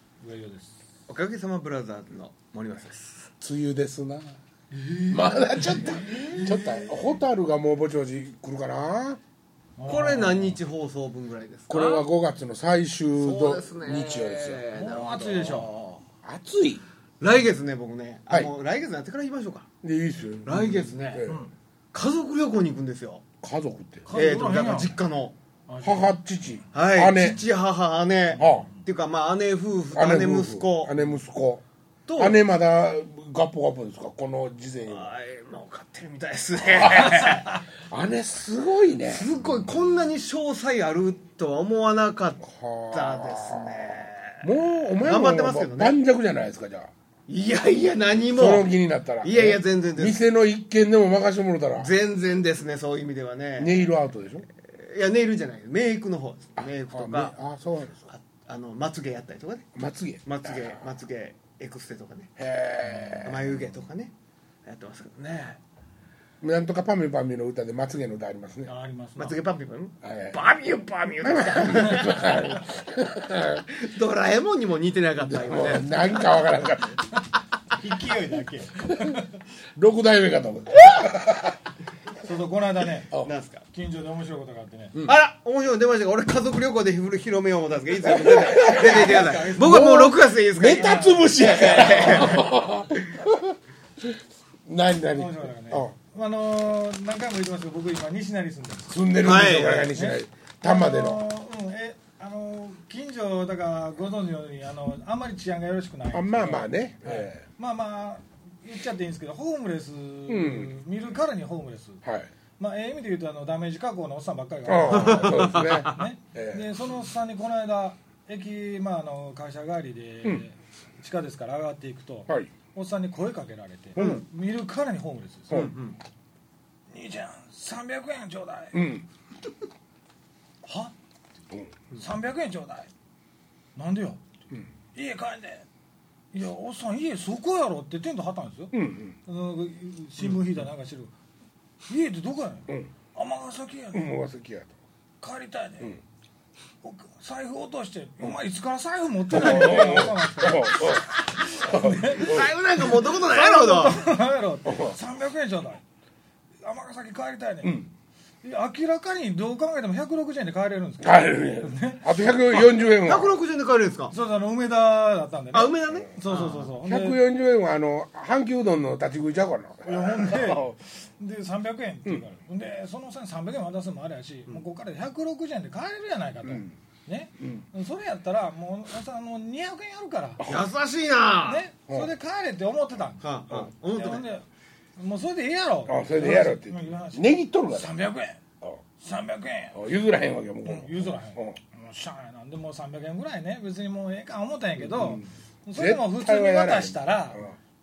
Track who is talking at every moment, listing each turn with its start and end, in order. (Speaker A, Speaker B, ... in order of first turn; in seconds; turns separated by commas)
Speaker A: 0.2-0.7, Speaker B: 1.1-3.2, Speaker C: 3.4-4.4, Speaker A: 4.7-6.9, Speaker C: 5.1-9.2, Speaker B: 6.0-6.5, Speaker A: 9.8-10.6, Speaker B: 9.9-12.0, Speaker C: 11.7-14.6, Speaker B: 13.2-15.8, Speaker A: 14.7-16.0, Speaker C: 16.2-16.8, Speaker B: 17.2-19.7, Speaker C: 19.8-21.4, Speaker B: 20.4-21.2, Speaker B: 21.9-23.2, Speaker C: 23.4-24.1, Speaker A: 24.1-24.9, Speaker B: 24.1-25.3, Speaker A: 25.7-26.2, Speaker C: 25.8-27.4, Speaker B: 26.7-30.9, Speaker A: 28.3-28.8, Speaker C: 28.4-28.7, Speaker C: 29.9-31.6, Speaker B: 32.1-32.4, Speaker C: 32.2-35.1, Speaker B: 34.9-37.6, Speaker C: 36.6-39.3, Speaker B: 39.0-44.4, Speaker C: 42.4-46.9, Speaker B: 45.0-46.0, Speaker B: 47.3-48.7, Speaker C: 48.3-51.9, Speaker B: 49.2-50.2, Speaker B: 51.8-53.8, Speaker C: 53.6-54.5, Speaker B: 54.6-57.3, Speaker C: 56.6-58.0, Speaker B: 58.1-59.7, Speaker C: 59.8-60.8, Speaker B: 60.2-62.3, Speaker C: 62.4-63.6, Speaker A: 62.8-63.2, Speaker B: 63.2-64.1, Speaker B: 64.6-65.6, Speaker C: 66.4-68.7, Speaker A: 68.7-69.4, Speaker B: 69.2-72.4, Speaker C: 70.0-70.4, Speaker C: 71.2-73.7, Speaker B: 73.7-76.0, Speaker C: 75.3-77.0, Speaker B: 77.8-78.7, Speaker A: 77.8-79.2, Speaker C: 78.8-79.2, Speaker C: 79.8-81.6, Speaker A: 82.2-83.1, Speaker B: 83.2-83.6, Speaker A: 83.7-84.9, Speaker B: 85.0-93.2, Speaker C: 88.0-95.9, Speaker A: 88.6-89.8, Speaker A: 90.7-91.3, Speaker A: 95.1-112.0, Speaker C: 98.9-101.2, Speaker B: 99.2-99.9, Speaker C: 106.1-107.4, Speaker C: 110.3-110.7, Speaker C: 112.0-112.3, Speaker A: 112.6-125.6, Speaker C: 114.7-116.7, Speaker B: 114.9-116.0, Speaker B: 124.0-124.2, Speaker B: 125.5-126.0, Speaker A: 126.9-128.9, Speaker C: 128.7-129.1, Speaker A: 130.6-130.9, Speaker A: 131.9-132.9, Speaker A: 133.8-134.3, Speaker A: 134.9-135.7, Speaker A: 136.3-141.1, Speaker C: 138.7-139.2, Speaker A: 141.9-144.1, Speaker C: 143.9-144.7, Speaker A: 145.2-146.0, Speaker A: 146.8-155.8, Speaker C: 149.3-152.5, Speaker B: 152.2-154.0, Speaker C: 154.7-155.0, Speaker A: 156.6-157.8, Speaker C: 157.6-157.9, Speaker A: 158.4-162.1, Speaker C: 161.0-163.4, Speaker B: 163.0-164.1, Speaker A: 164.1-167.2, Speaker B: 165.5-166.7, Speaker C: 166.8-170.7, Speaker A: 169.8-180.4, Speaker C: 176.4-176.7, Speaker C: 177.4-177.6, Speaker C: 180.4-180.7, Speaker B: 180.4-181.6, Speaker A: 181.4-183.2, Speaker B: 183.2-184.3, Speaker A: 183.9-184.4, Speaker A: 185.0-188.4, Speaker C: 185.9-187.9, Speaker A: 189.0-189.8, Speaker C: 189.7-191.6, Speaker A: 190.6-197.4, Speaker C: 194.8-197.6